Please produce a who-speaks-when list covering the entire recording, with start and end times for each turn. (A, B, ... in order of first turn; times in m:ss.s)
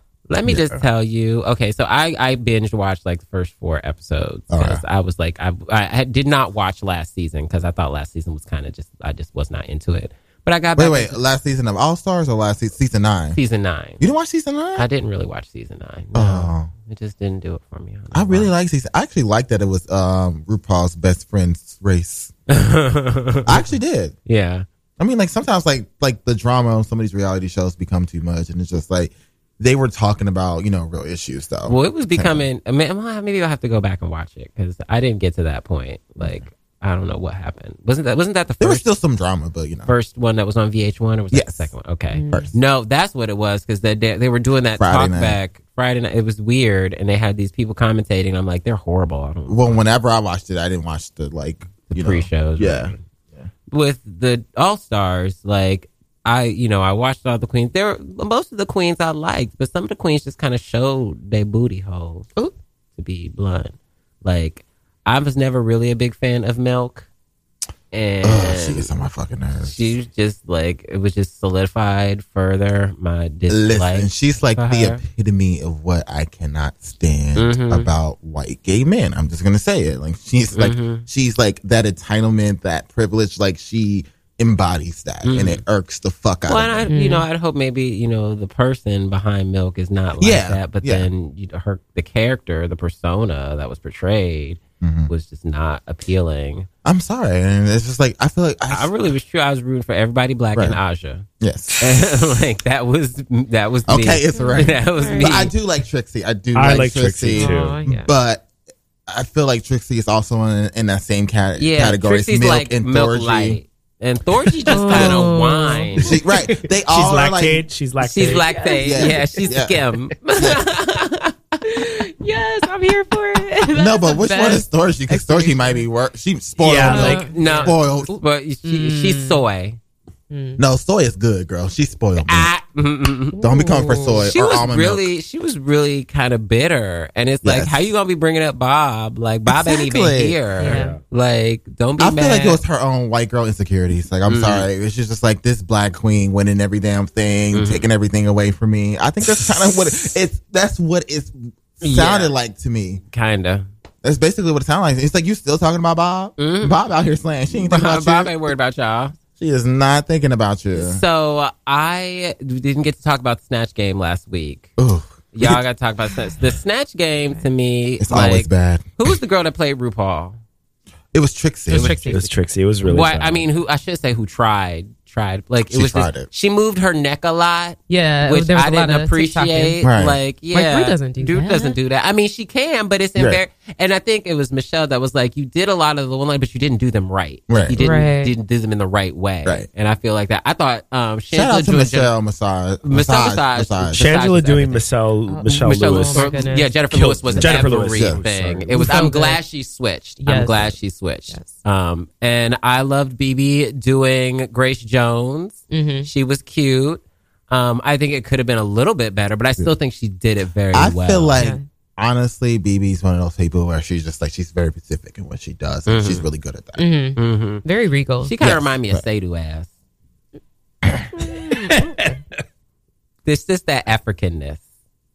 0:00.3-0:11.2 A
0:04.5-0:04.8 B
0:10.8-0:13.4 B
0:13.4-0:14.0 A
0:14.0-0:14.9 B
0:14.8-0:18.5 A
0:16.1-0:16.7 B
0:18.1-0:22.3 B
0:22.5-0:23.7 A
0:23.5-0:24.2 B
0:24.3-0:24.7 A
0:25.0-0:32.5 B
0:31.6-0:38.9 A
0:38.6-0:39.9 B
0:39.9-0:49.7 A
0:41.3-0:41.7 B
0:42.1-0:42.5 C
0:44.8-0:45.4 B
0:49.5-0:53.5 B
0:51.9-0:53.0 A
0:53.7-1:02.3 A
1:03.0-1:07.1 A
1:07.9-1:08.9 A
1:08.2-1:10.0 B
1:09.6-1:15.0 A
1:13.5-1:26.9 B
1:17.4-1:17.9 A
1:20.5-1:21.1 A
1:25.2-1:25.6 A
1:26.5-1:36.7 A
1:26.9-1:27.3 C
1:30.2-1:31.1 B
1:34.8-1:35.1 B
1:36.8-1:38.9 B
1:38.7-1:41.3 A
1:40.5-1:40.8 B
1:41.4-1:42.4 B
1:41.8-1:45.5 A
1:43.9-1:48.5 B
1:44.3-1:45.5 C
1:46.6-1:47.8 D
1:47.3-1:48.1 C
1:49.1-1:53.6 B
1:51.6-1:56.1 A
1:54.7-1:56.0 C
1:54.8-1:55.3 B
1:56.0-1:58.7 D
1:56.0-1:57.7 B
1:58.0-2:01.5 A
1:58.4-1:59.5 C
1:58.8-1:59.8 B
2:01.7-2:05.8 C
2:03.7-2:08.1 B
2:06.6-2:07.3 D
2:06.8-2:07.8 C
2:06.9-2:09.8 A
2:08.6-2:09.4 C
2:10.3-2:10.6 C
2:10.6-2:12.5 B
2:12.2-2:13.4 A
2:13.3-2:14.3 C
2:13.4-2:15.1 B
2:14.1-2:22.6 A
2:17.4-2:17.8 B
2:19.5-2:20.4 B
2:20.6-2:21.0 C
2:20.6-2:21.0 D
2:22.0-2:33.0 B
2:24.3-2:24.7 A
2:27.5-2:27.9 A
2:31.8-2:32.3 A
2:33.1-2:33.7 A
2:34.0-2:38.4 B
2:36.4-2:36.8 A
2:37.7-2:39.1 A
2:39.4-2:41.0 B
2:40.7-2:44.7 A
2:44.8-2:45.6 B
2:45.3-2:50.4 A
2:48.0-2:48.9 B
2:51.1-2:52.0 B
2:51.7-2:52.2 C
2:51.7-3:12.1 A
2:52.1-2:53.5 D
2:55.7-2:56.3 B
2:57.9-2:59.8 C
2:59.8-3:00.2 B
3:00.5-3:01.8 C
3:03.2-3:03.4 B
3:07.5-3:07.8 B
3:07.8-3:08.3 C
3:11.3-3:14.1 B
3:12.8-3:14.8 A
3:13.9-3:18.9 D
3:15.3-3:16.8 C
3:15.5-3:31.4 A
3:17.3-3:18.7 B
3:18.7-3:19.4 C
3:20.2-3:20.8 C
3:21.3-3:21.6 C
3:25.7-3:26.1 C
3:30.7-3:36.8 B
3:31.4-3:31.6 C
3:35.9-3:36.2 A
3:36.8-3:38.4 C
3:37.2-3:37.6 A
3:38.2-3:39.7 A
3:38.4-3:39.0 B
3:41.3-3:42.1 D
3:43.2-3:44.6 A